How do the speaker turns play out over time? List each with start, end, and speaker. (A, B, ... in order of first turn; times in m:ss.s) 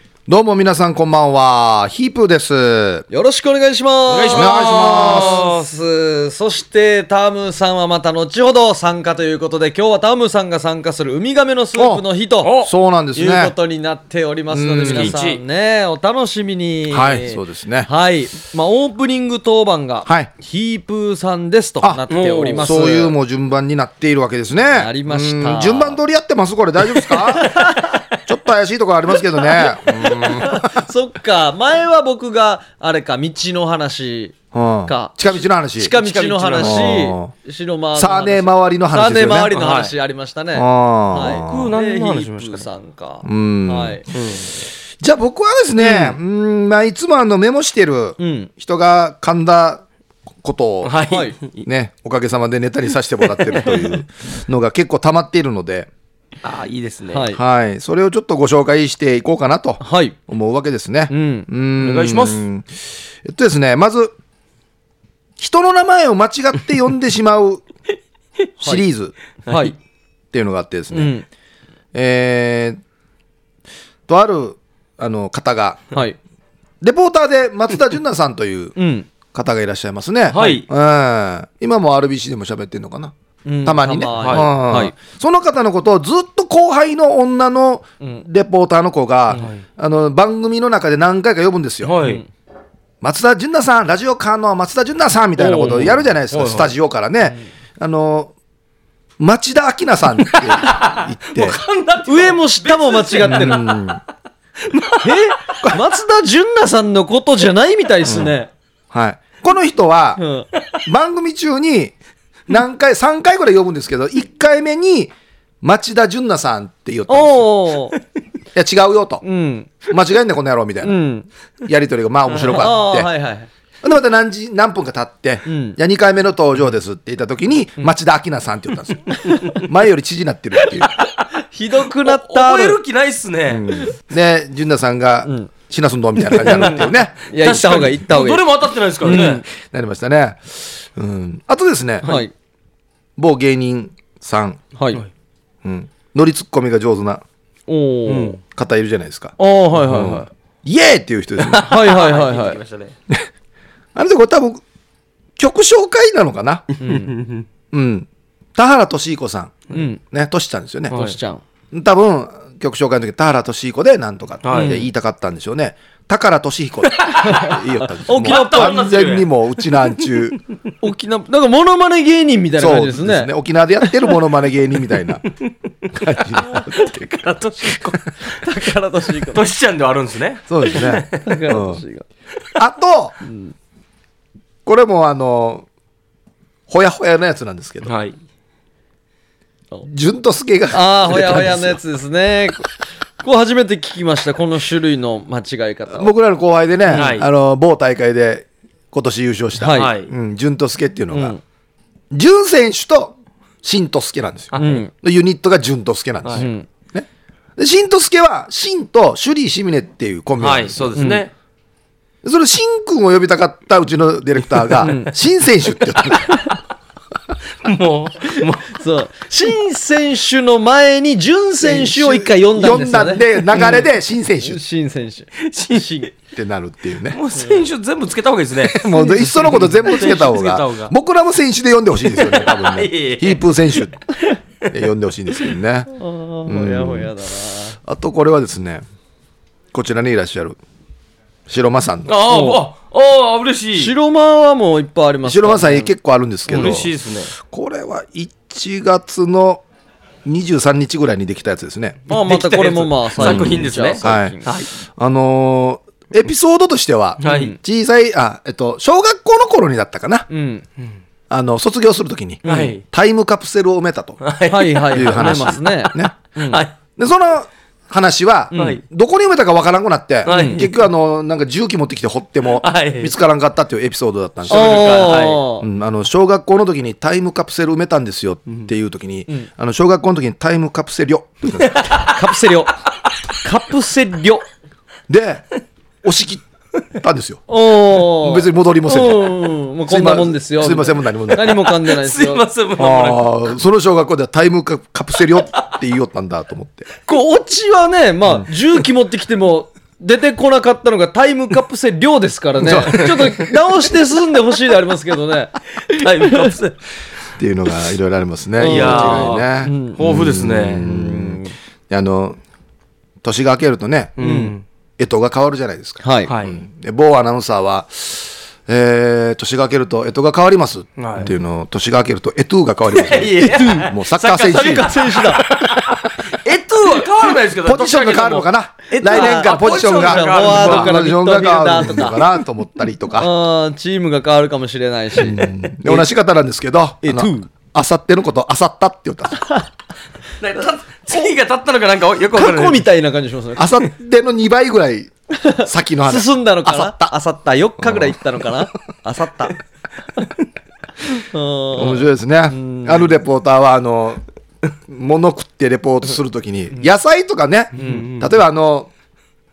0:00.3-0:03.0 A
0:03.1-0:12.5 B
0:04.1-0:05.6 C
0:04.3-0:05.4 A
0:11.8-0:12.0 A
0:12.4-0:12.7 C
0:12.6-0:13.5 A
0:13.1-0:23.1 B
0:14.5-0:15.2 A
0:14.9-0:15.4 C
0:16.9-0:17.9 A
0:22.1-0:22.7 C
0:22.6-0:30.7 A
0:24.7-0:26.0 B
0:27.4-0:28.0 B
0:29.9-0:44.0 B
0:34.5-0:35.9 A
0:36.0-0:36.9 C
0:36.6-0:37.3 A
0:37.9-0:39.6 A
0:39.5-0:39.9 C
0:40.5-0:41.7 A
0:41.2-0:42.7 C
0:43.2-0:44.0 A
0:44.1-0:44.5 C
0:45.0-0:49.8 A
0:45.8-0:46.2 B
0:48.2-0:48.5 B
0:50.4-0:51.0 A
0:50.8-0:51.6 C
0:51.1-0:51.4 B
0:51.6-0:55.9 A
0:56.4-0:57.3 C
0:57.1-0:57.4 B
0:57.3-1:04.1 A
0:59.8-1:00.2 B
1:01.1-1:01.5 B
1:01.8-1:02.4 C
1:05.4-1:07.6 A
1:08.6-1:09.1 A
1:09.4-1:09.8 B
1:09.5-1:09.7 C
1:10.3-1:11.1 A
1:10.9-1:11.2 B
1:11.9-1:12.8 A
1:14.1-1:15.8 A
1:16.8-1:18.7 A
1:18.8-1:19.1 B
1:19.3-1:23.1 A
1:20.3-1:20.7 C
1:23.4-1:24.9 B
1:23.6-1:31.9 A
1:24.2-1:24.5 C
1:29.3-1:29.6 C
1:31.8-1:32.2 C
1:32.0-1:32.3 B
1:33.0-1:38.3 A
1:35.4-1:36.7 C
1:35.6-1:35.9 B
1:39.2-1:41.6 A
1:40.6-1:43.8 C
1:42.0-1:43.7 B
1:43.2-1:44.0 A
1:44.6-1:45.2 C
1:45.0-1:48.5 B
1:48.0-1:48.3 A
1:48.9-1:50.2 A
1:50.2-1:50.5 B
1:50.8-1:51.9 A
1:52.5-1:57.5 A
1:57.1-1:58.0 B
1:58.5-1:59.2 A
1:59.2-1:59.7 B
1:59.9-2:01.0 A
2:00.8-2:01.3 B
2:01.6-2:03.1 A
2:02.5-2:03.5 B
2:03.8-2:10.9 A
2:05.4-2:05.8 B
2:11.5-2:12.8 B
2:12.0-2:13.7 C
2:13.5-2:17.2 A
2:15.2-2:15.5 B
2:16.4-2:19.4 C
2:17.3-2:18.4 B
2:19.0-2:19.4 B
2:19.0-2:22.1 A
2:22.0-2:22.3 B
2:23.2-2:24.6 A
2:24.8-2:25.0 B
2:25.6-2:27.2 A
2:27.7-2:28.4 B
2:28.1-2:28.4 C
2:28.4-2:31.8 A
2:29.4-2:30.3 B
2:31.4-2:32.9 C
2:31.6-2:32.6 B
2:33.9-2:34.6 A
2:35.4-2:36.7 A
2:36.8-2:37.1 B
2:36.8-2:37.4 C
2:37.7-2:40.9 A
2:39.7-2:40.0 B
2:40.9-2:41.2 C
2:40.9-2:41.4 B
2:41.7-2:50.4 A
2:44.4-2:44.8 C
2:44.5-2:44.8 B
2:47.2-2:48.8 B
2:48.2-2:49.3 C
2:50.8-2:53.3 B
2:52.6-2:55.2 A
2:55.9-2:57.9 A
2:57.2-2:59.4 B
2:59.3-3:01.2 C
3:00.5-3:01.8 A
3:01.2-3:02.0 B
3:02.6-3:03.2 A
3:04.6-3:05.6 A
3:06.7-3:07.9 A
3:07.8-3:08.2 C
3:09.8-3:11.8 A
3:10.7-3:16.1 B
3:15.9-3:21.4 A
3:16.8-3:17.2 B
3:16.9-3:17.3 C
3:19.6-3:19.9 B
3:19.7-3:20.1 C
3:21.1-3:21.4 B
3:22.1-3:30.9 A
3:24.5-3:24.8 C
3:24.6-3:24.9 B
3:26.4-3:26.6 B
3:30.4-3:31.3 C
3:31.0-3:31.3 B
3:32.2-3:36.4 A
3:34.8-3:35.1 B
3:37.6-3:38.6 C
3:38.3-3:43.8 B
3:41.6-3:44.6 A
3:44.4-3:46.1 B
3:45.4-3:46.1 C
3:46.3-3:47.2 A
3:47.1-3:50.9 C
3:47.4-3:47.6 B
3:48.6-3:53.9 A
3:48.9-3:49.2 B
3:52.1-3:53.4 C
3:54.7-3:55.9 A
3:55.9-3:57.8 B
3:56.4-3:57.1 A
3:57.8-3:58.8 A
3:59.7-4:00.6 A
4:01.5-4:02.1 A
4:02.1-4:03.9 C
4:02.2-4:02.7 B
4:03.8-4:05.9 B
4:05.2-4:06.9 A
4:06.5-4:07.3 C
4:06.5-4:06.8 B
4:07.4-4:09.6 A
4:10.2-4:12.0 A
4:12.1-4:14.5 B
4:12.1-4:14.7 C
4:13.2-4:14.3 A
4:14.8-4:20.3 A
4:17.2-4:17.5 C
4:17.2-4:17.6 B
4:20.3-4:20.6 B
4:21.3-4:24.2 A
4:22.4-4:22.7 B
4:22.4-4:22.8 C
4:24.2-4:26.7 C
4:24.5-4:26.6 B
4:24.9-4:26.1 A
4:27.0-4:41.9 A
4:28.5-4:28.8 B
4:28.5-4:28.8 C
4:30.2-4:30.8 C
4:30.2-4:30.6 B
4:32.6-4:33.1 C
4:34.5-4:35.4 C
4:34.5-4:35.7 B
4:41.6-4:42.2 C
4:42.1-4:42.7 B
4:43.4-4:44.4 B
4:45.1-4:45.4 A
4:46.0-4:46.4 A
4:46.9-4:51.6 A
4:47.5-4:52.4 B
4:51.4-4:53.2 C
4:52.8-4:56.9 A
4:57.0-5:06.5 B
5:02.6-5:03.5 C
5:05.9-5:06.8 C
5:07.4-5:12.4 A
5:08.6-5:10.0 B
5:08.6-5:10.8 C
5:10.9-5:11.5 B
5:13.2-5:14.2 A
5:14.2-5:14.6 C
5:14.2-5:14.5 B
5:15.0-5:25.0 A
5:16.0-5:16.3 B
5:16.3-5:16.6 C
5:21.0-5:21.3 C
5:22.9-5:30.9 C
5:23.4-5:23.9 B
5:24.4-5:25.4 B
5:27.6-5:33.3 A
5:29.0-5:32.2 B
5:33.2-5:36.1 B
5:35.2-5:39.5 A
5:37.0-5:37.5 B
5:40.4-5:42.8 C
5:42.3-5:43.7 B
5:43.6-5:47.1 A
5:45.4-5:49.6 B
5:47.8-5:48.2 A
5:51.1-5:53.1 B
5:51.7-5:54.2 A
5:54.9-5:58.9 A
5:57.8-5:58.0 B
5:57.8-5:58.3 C